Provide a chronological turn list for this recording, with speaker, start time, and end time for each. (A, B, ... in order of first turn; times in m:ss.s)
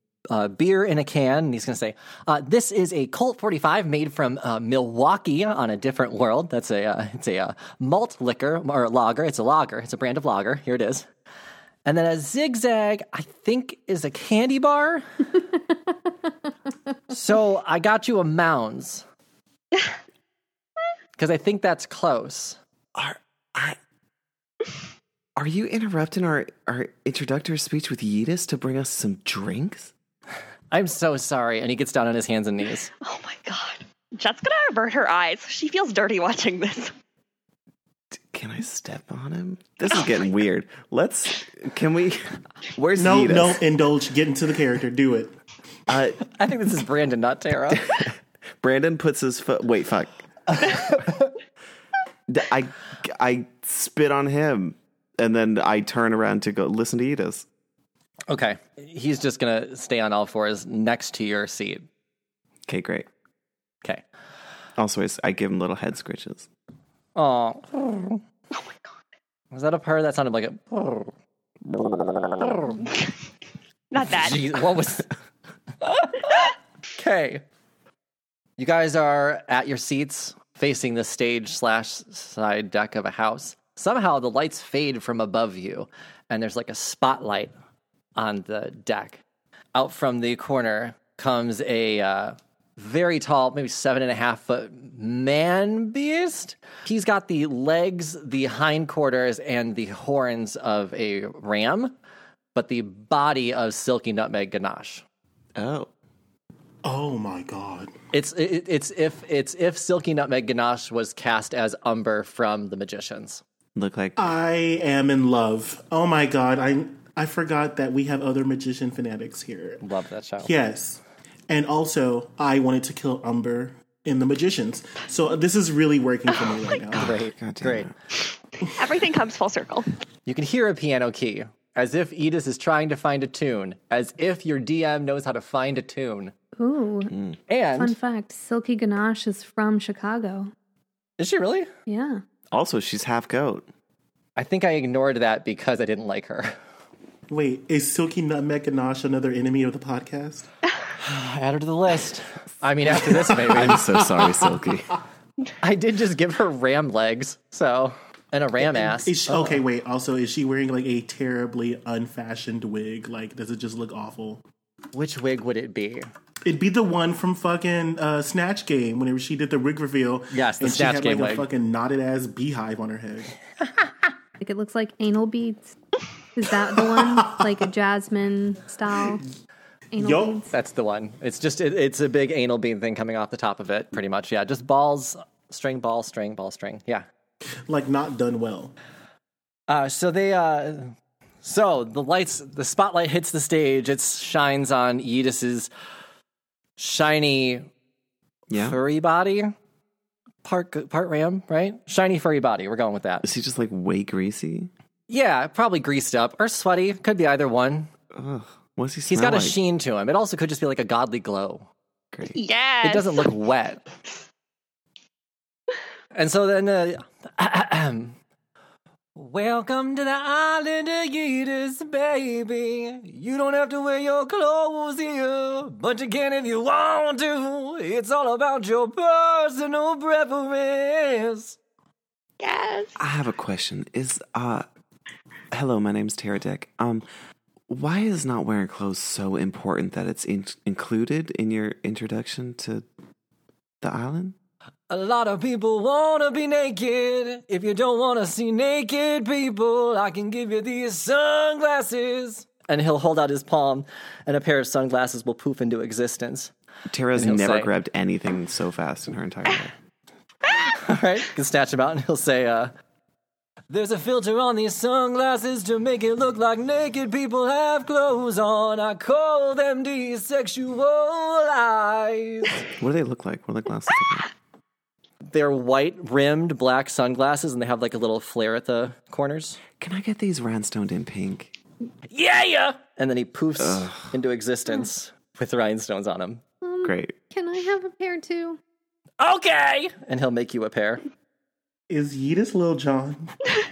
0:00.3-0:11.1 A
0:11.8-0:15.0 A
0:17.1-0:19.0 A
0:21.2-0:22.6 A
0:22.9-0:23.8 B
0:25.4-0:29.9 B
0:30.7-0:32.9 A
0:33.0-0:36.9 C
0:38.1-0:43.6 B
0:43.0-0:45.3 D
0:45.9-0:46.2 B
0:46.2-0:47.9 A
0:47.9-0:50.2 B
0:50.5-0:51.3 A
0:52.3-0:57.4 B
0:58.3-1:01.8 A
1:02.7-1:03.1 B
1:04.8-1:06.5 B
1:07.1-1:08.2 A
1:09.5-1:11.1 A
1:11.7-1:12.8 A
1:13.9-1:14.4 C
1:14.0-1:15.1 A
1:15.8-1:17.4 A
1:18.6-1:27.5 A
1:28.2-1:29.2 A
1:29.7-1:41.9 A
1:42.5-1:45.0 A
1:45.6-1:45.9 B
1:46.8-1:47.9 D
1:48.1-1:53.4 A
1:53.7-1:54.2 B
1:54.2-1:59.8 D
1:59.8-2:00.5 A
2:00.4-2:07.1 D
2:06.9-2:07.9 B
2:07.0-2:07.9 A
2:08.7-2:09.9 C
2:10.2-2:16.3 A
2:16.6-2:17.1 E
2:17.1-2:17.4 B
2:17.5-2:18.0 A
2:17.8-2:20.5 E
2:21.2-2:21.7 A
2:21.9-2:22.2 E
2:22.5-2:23.7 B
2:24.4-2:26.6 A
2:27.3-2:30.5 D
2:31.0-2:33.9 A
2:33.0-2:33.8 D
2:33.2-2:34.9 B
2:35.6-2:39.6 A
2:38.6-2:44.4 D
2:44.9-2:46.1 A
2:46.4-2:53.3 D
2:50.3-2:51.5 A
2:54.4-2:55.8 E
2:56.4-2:59.2 E
2:56.7-2:57.6 D
2:59.9-3:00.5 E
3:00.0-3:00.4 D
3:00.5-3:07.0 A
3:07.7-3:08.7 D
3:09.7-3:10.9 A
3:11.4-3:15.7 A
3:16.8-3:17.7 A
3:18.5-3:18.8 B
3:18.5-3:19.5 A
3:20.4-3:23.2 A
3:23.2-3:24.7 B
3:25.1-3:27.9 A
3:28.1-3:29.6 B
3:29.1-3:31.7 A
3:32.3-3:33.3 C
3:32.8-3:33.8 A
3:36.1-3:38.2 A
3:39.2-3:51.6 A
3:52.4-3:52.9 C
3:53.0-3:54.7 B
3:55.5-3:57.0 B
3:57.7-4:02.8 B
4:03.8-4:04.4 B
4:04.9-4:16.5 A
4:16.9-4:19.7 B
4:17.2-4:17.7 A
4:20.6-4:22.7 A
4:23.7-4:32.6 A
4:32.8-4:34.3 B
4:35.3-4:39.6 A
4:39.8-4:41.5 B
4:42.1-4:46.4 A
4:43.6-4:44.1 B
4:46.6-4:48.6 E
4:46.8-4:47.1 B
4:49.2-4:51.0 A
4:51.9-4:53.5 D